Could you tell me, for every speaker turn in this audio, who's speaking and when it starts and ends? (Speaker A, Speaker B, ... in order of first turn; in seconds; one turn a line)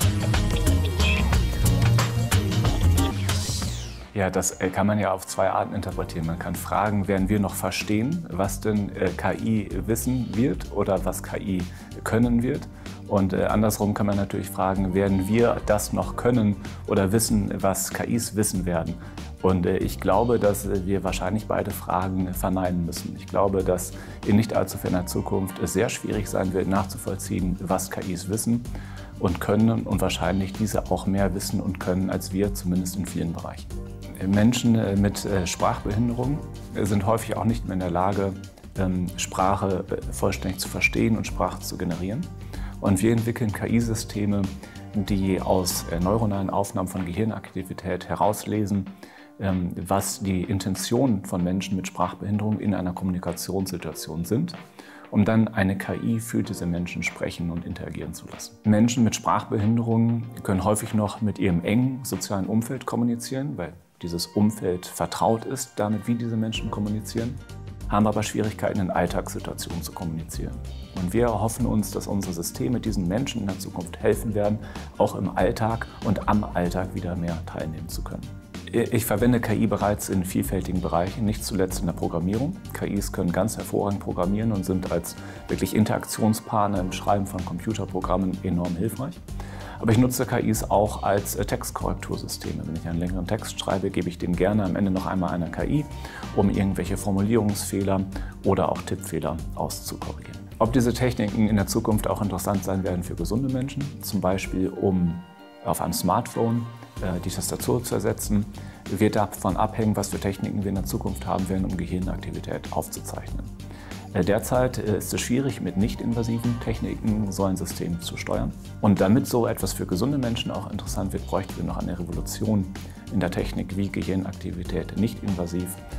Speaker A: 4.1-54.6
Speaker A: 55.1-89.2
Speaker A: 89.8-113.5
Speaker A: 114.1-125.8